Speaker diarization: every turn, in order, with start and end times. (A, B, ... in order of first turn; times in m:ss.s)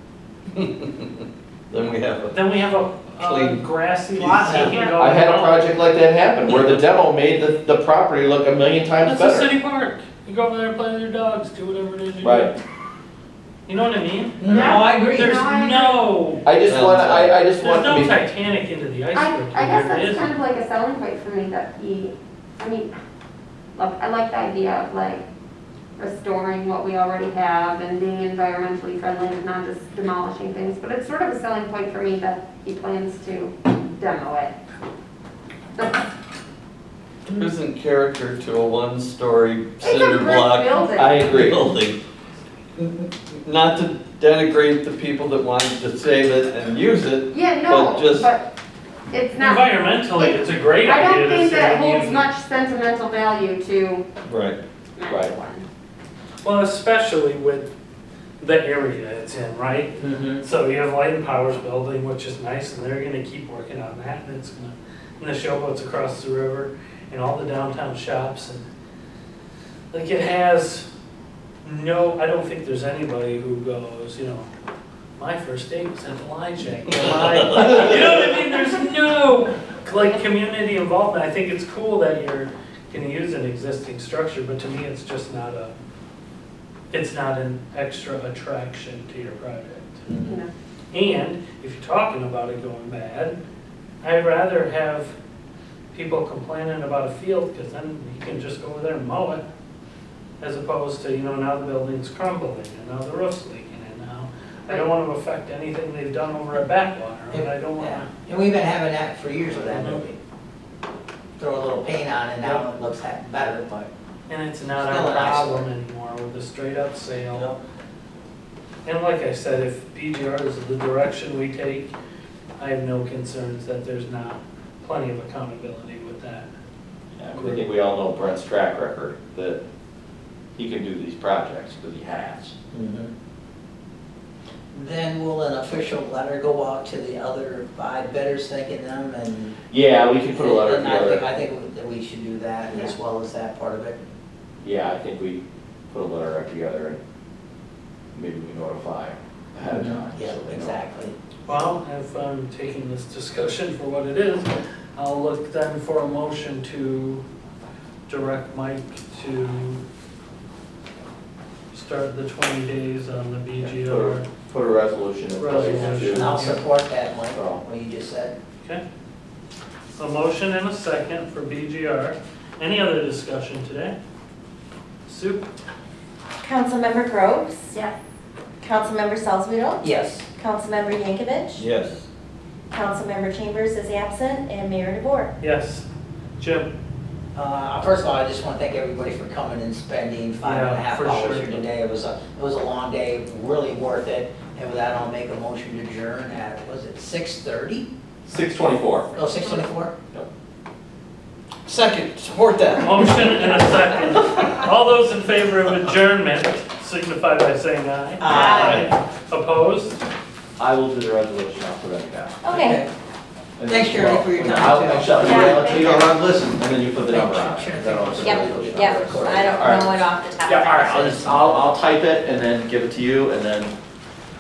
0:00.5-0:02.4 A
0:02.3-0:05.7 B
0:03.2-0:03.6 A
0:04.2-0:04.7 A
0:04.4-0:04.7 C
0:04.5-0:05.0 D
0:04.9-0:09.5 E
0:06.5-0:06.8 A
0:09.0-0:12.5 B
0:12.2-0:12.5 E
0:13.6-0:16.4 B
0:14.4-0:15.4 C
0:14.5-0:16.0 D
0:16.4-0:18.1 E
0:16.6-0:17.4 A
0:17.6-0:20.3 B
0:19.1-0:22.9 D
0:23.7-0:25.2 D
0:26.0-0:34.5 D
0:35.8-0:36.0 D
0:37.2-0:42.0 A
0:39.8-0:41.2 D
0:40.9-0:41.6 E
0:42.8-0:48.3 A
0:47.3-0:48.5 D
0:49.1-0:49.7 D
0:49.4-0:52.3 B
0:50.8-0:54.0 D
0:54.2-0:54.6 A
0:55.0-0:55.6 D
0:56.4-0:57.7 B
0:58.4-1:08.6 B
1:00.0-1:00.3 A
1:09.9-1:10.9 B
1:11.6-1:14.5 B
1:15.2-1:25.7 B
1:17.0-1:17.9 A
1:26.9-1:30.1 B
1:30.1-1:30.4 C
1:30.2-1:30.5 D
1:30.9-1:33.4 B
1:34.0-1:35.1 B
1:35.9-1:39.4 B
1:40.4-1:48.1 B
1:47.3-1:50.2 C
1:49.7-1:50.0 B
1:51.4-1:53.9 C
1:54.3-1:57.5 B
1:54.8-1:55.7 C
1:58.8-2:01.9 B
2:02.6-2:06.5 B
2:07.2-2:09.6 E
2:10.6-2:12.5 E
2:12.7-2:13.1 C
2:14.7-2:19.6 C
2:19.7-2:21.2 E
2:20.3-2:24.0 C
2:22.7-2:22.9 D
2:24.6-2:27.0 E
2:28.1-2:30.8 E
2:29.6-2:31.1 C
2:31.5-2:37.2 B
2:38.1-2:39.8 B
2:41.7-2:44.2 B
2:43.6-2:46.4 E
2:45.4-2:46.6 B
2:46.1-2:48.3 C
2:47.3-2:47.6 E
2:49.9-2:54.0 B
2:55.0-2:55.5 B
2:56.4-2:57.7 F
2:58.6-3:01.7 F
2:59.8-3:00.2 C
3:01.6-3:02.0 A
3:02.7-3:05.3 F
3:05.4-3:05.9 B
3:06.4-3:06.7 B
3:07.3-3:17.9 C
3:10.4-3:11.5 B
3:18.2-3:19.1 E
3:18.9-3:19.6 D
3:19.1-3:19.9 C
3:21.6-3:23.3 A
3:22.8-3:30.0 B
3:28.2-3:28.8 C
3:28.3-3:28.9 A
3:28.4-3:28.7 F
3:30.6-3:32.4 E
3:32.4-3:32.8 F
3:32.5-3:32.9 C
3:33.6-3:39.9 E
3:33.7-3:36.2 C
3:35.2-3:35.9 F
3:37.0-3:39.9 C
3:38.2-3:41.1 F
3:40.4-3:43.7 E
3:40.7-3:41.7 C